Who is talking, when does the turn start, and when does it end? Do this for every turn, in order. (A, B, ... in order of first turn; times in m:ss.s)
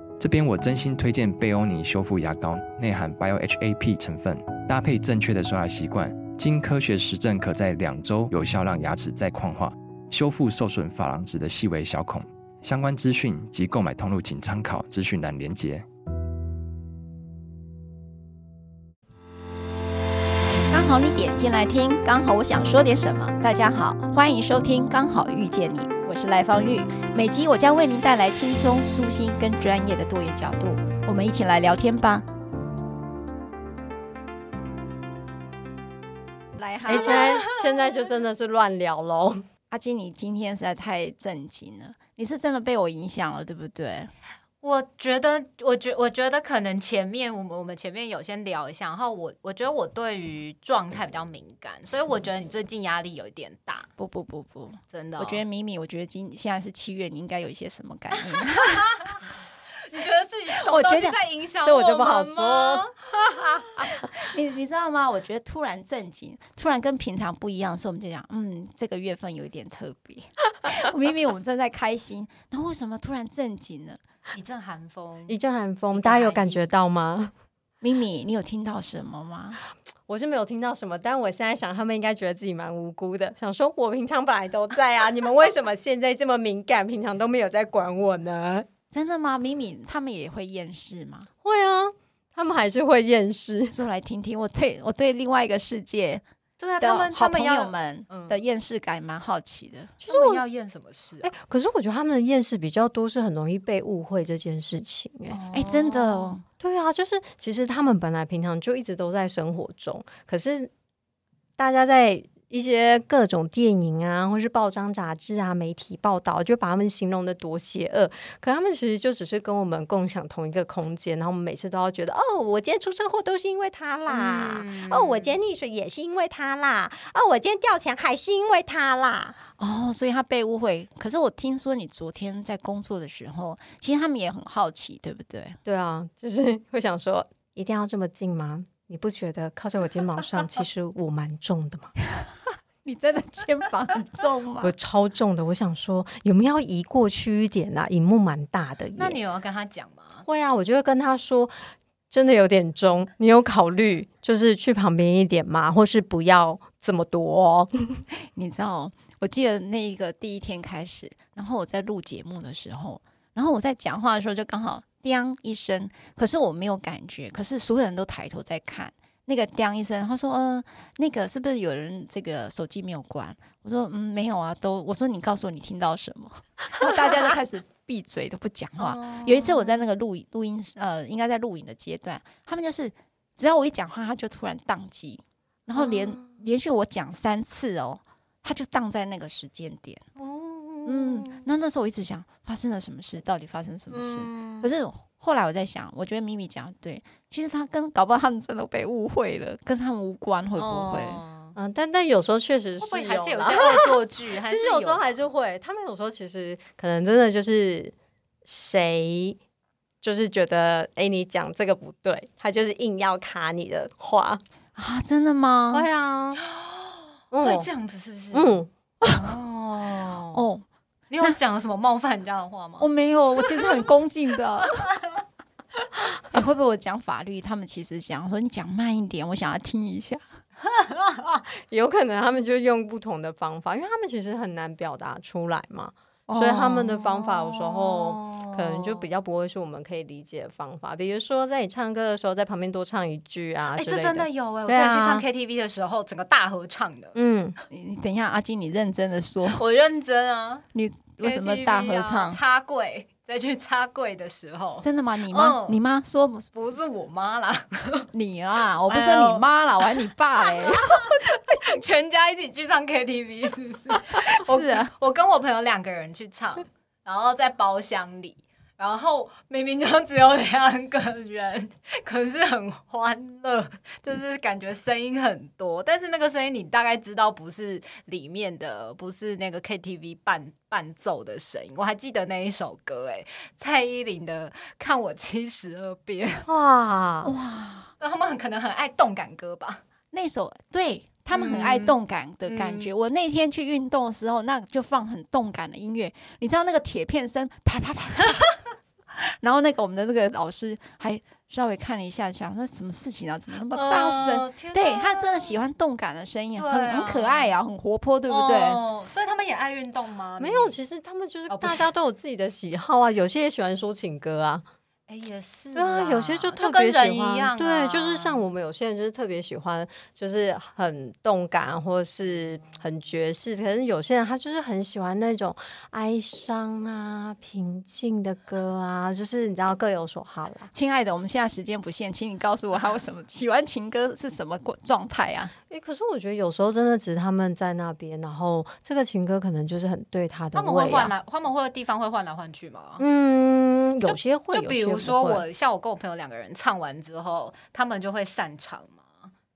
0:00.2-0:15.8 A
0:20.7-0:32.2 B
0:36.6-0:37.4 B
0:36.9-0:39.4 C
0:36.9-0:38.1 D
0:39.7-0:44.1 B
0:44.6-0:53.9 D
0:54.0-0:59.0 B
0:54.9-0:55.4 D
0:58.5-0:59.2 D
0:59.8-1:02.9 D
1:00.5-1:01.2 B
1:01.6-1:02.9 C
1:04.1-1:14.0 B
1:14.3-1:15.4 D
1:15.3-1:17.3 C
1:15.9-1:16.6 D
1:17.8-1:19.6 B
1:20.1-1:28.7 C
1:28.9-1:31.3 B
1:31.4-1:33.8 C
1:33.7-1:36.2 B
1:36.6-1:38.4 D
1:36.8-1:40.0 B
1:40.0-1:40.4 C
1:40.1-1:41.3 D
1:41.2-1:45.4 C
1:45.3-1:46.4 D
1:45.5-1:46.4 B
1:46.6-1:50.7 C
1:51.6-2:09.4 C
2:04.1-2:05.4 D
2:09.6-2:15.6 B
2:15.6-2:22.0 C
2:22.8-2:24.7 B
2:24.6-2:29.2 C
2:29.0-2:30.2 D
2:30.2-2:31.5 C
2:32.1-2:38.0 C
2:38.4-3:10.0 B
2:58.8-2:59.8 D
3:05.7-3:06.4 D
3:10.2-3:11.5 D
3:10.8-3:21.2 B
3:13.9-3:14.7 D
3:20.6-3:21.6 D
3:21.6-3:29.4 C
3:22.8-3:25.1 D
3:30.0-3:34.4 C
3:34.8-3:35.9 B
3:35.7-3:36.4 C
3:36.4-3:40.5 D
3:37.3-3:37.7 C
3:38.3-3:38.7 C
3:40.3-3:40.6 B
3:41.1-3:42.9 D
3:42.8-3:45.0 B
3:46.3-3:50.2 B
3:50.7-3:51.0 D
3:51.5-4:05.3 C
3:56.3-3:56.9 B
3:56.9-3:59.0 D
4:03.8-4:07.2 D
4:07.1-4:07.6 C
4:07.7-4:09.6 B
4:09.5-4:10.6 D
4:10.7-4:12.4 B
4:11.2-4:15.8 D
4:14.8-4:16.5 B
4:16.5-4:18.1 D
4:18.1-4:21.1 B
4:18.9-4:19.5 D
4:20.4-4:46.4 D
4:24.1-4:24.9 B
4:46.5-4:47.4 C
4:47.2-4:47.9 B
4:48.0-4:49.8 D
4:50.1-4:58.5 B
4:51.3-4:52.9 D
4:59.1-5:08.8 B
5:03.7-5:05.6 D
5:06.5-5:07.5 D
5:08.3-5:10.8 D
5:10.4-5:14.6 C
5:11.5-5:11.9 D
5:15.1-5:18.5 D
5:15.8-5:30.7 C
5:30.7-5:35.5 B
5:35.7-5:41.1 C
5:40.6-5:43.0 D
5:43.0-5:45.4 C
5:44.0-5:49.3 D